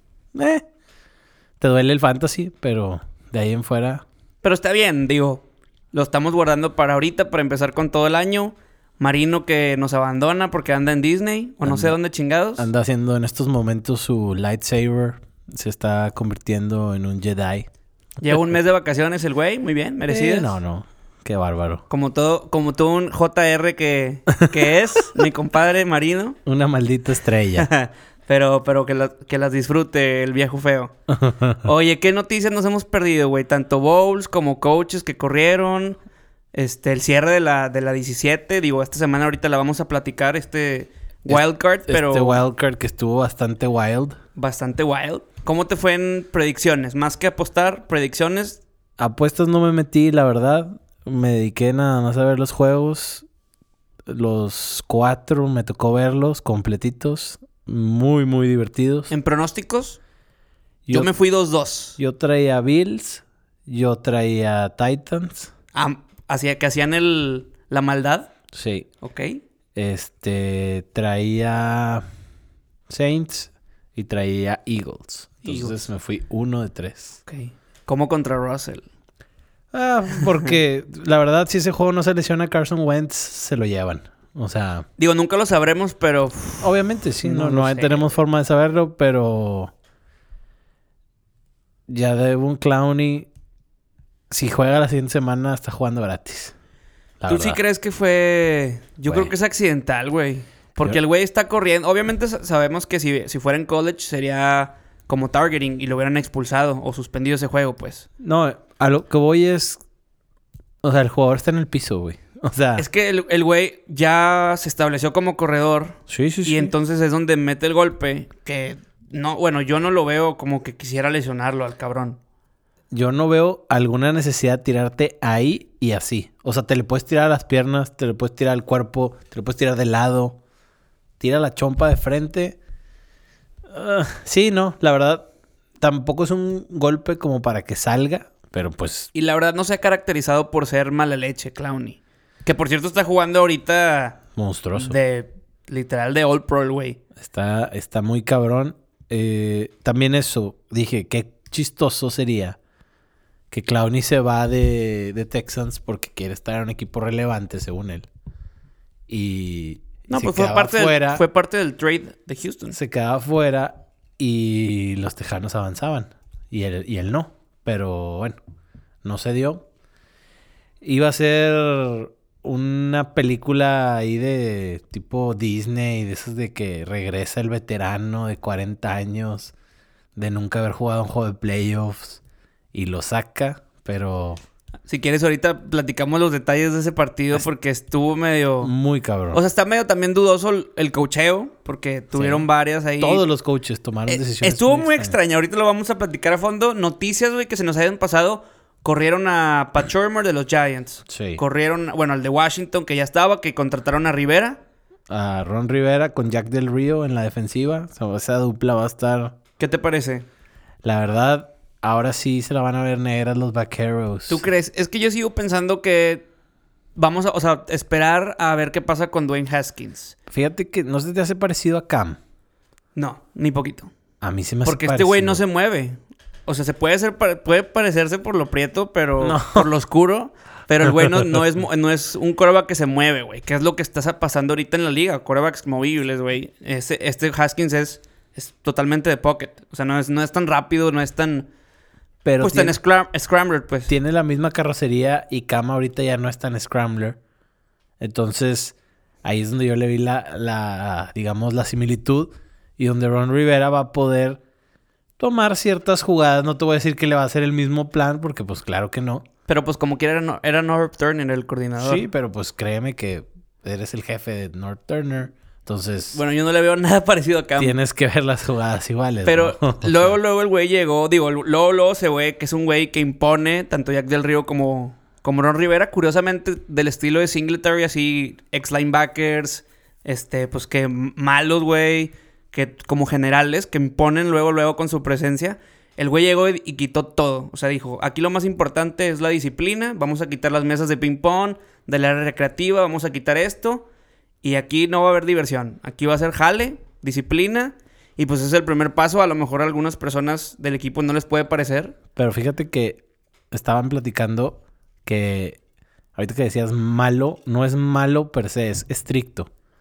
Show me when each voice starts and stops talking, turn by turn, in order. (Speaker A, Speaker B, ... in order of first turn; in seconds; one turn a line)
Speaker A: 0.3-0.6
Speaker A: 1.6-4.0
Speaker B: 4.4-12.7
Speaker A: 11.6-12.0
Speaker A: 12.6-17.7
Speaker B: 18.2-20.5
Speaker A: 20.1-21.8
Speaker B: 21.9-26.4
Speaker A: 26.4-27.7
Speaker B: 27.6-30.9
Speaker A: 31.1-31.6
Speaker B: 31.6-36.0
Speaker B: 36.5-42.4
Speaker A: 41.3-44.2
Speaker B: 44.4-48.6
Speaker A: 49.0-53.2
Speaker A: 54.1-59.1
Speaker B: 59.1-60.0
Speaker A: 60.9-61.1
Speaker B: 60.9-62.0
Speaker A: 62.0-65.5
Speaker B: 65.7-68.3
Speaker A: 68.5-68.9
Speaker B: 69.0-69.4
Speaker A: 69.7-72.0
Speaker A: 72.9-77.2
Speaker B: 75.4-75.8
Speaker B: 77.2-78.8
Speaker A: 79.7-84.8
Speaker B: 85.0-86.7
Speaker A: 86.6-89.7
Speaker B: 87.2-88.1
Speaker A: 91.9-93.3
Speaker A: 94.3-96.5
Speaker A: 97.2-97.6
Speaker B: 97.3-108.1
Speaker A: 99.1-99.3
Speaker A: 108.2-109.8
Speaker A: 110.8-112.8
Speaker B: 112.8-122.2
Speaker A: 116.1-116.7
Speaker A: 122.9-130.4
Speaker A: 131.2-132.6
Speaker A: 133.7-135.3
Speaker A: 135.8-139.1
Speaker B: 139.1-144.2
Speaker A: 144.3-144.9
Speaker B: 144.7-147.0
Speaker A: 147.2-152.6
Speaker A: 153.5-158.1
Speaker A: 159.1-161.2
Speaker B: 160.1-162.8
Speaker A: 162.7-168.4
Speaker A: 169.0-169.6
Speaker A: 170.8-179.5
Speaker A: 180.1-182.2
Speaker A: 182.7-184.4
Speaker B: 184.9-188.7
Speaker A: 188.6-189.4
Speaker B: 189.3-193.2
Speaker A: 192.1-192.4
Speaker A: 193.0-195.2
Speaker B: 194.1-204.6
Speaker A: 201.1-201.4
Speaker A: 205.1-209.3
Speaker B: 209.6-210.2
Speaker A: 210.8-214.4
Speaker B: 214.3-216.3
Speaker B: 216.9-220.1
Speaker A: 220.3-222.2
Speaker B: 222.9-223.9
Speaker A: 224.2-225.4
Speaker B: 224.6-241.5
Speaker A: 229.2-229.7
Speaker A: 242.2-242.8
Speaker B: 242.4-243.9
Speaker A: 243.9-247.2
Speaker A: 248.0-254.4
Speaker A: 255.2-259.2
Speaker B: 259.5-262.1
Speaker A: 261.8-266.2
Speaker B: 266.1-267.7
Speaker A: 267.6-270.2
Speaker B: 269.2-293.9
Speaker B: 294.4-301.9
Speaker A: 302.1-305.6
Speaker A: 306.1-309.5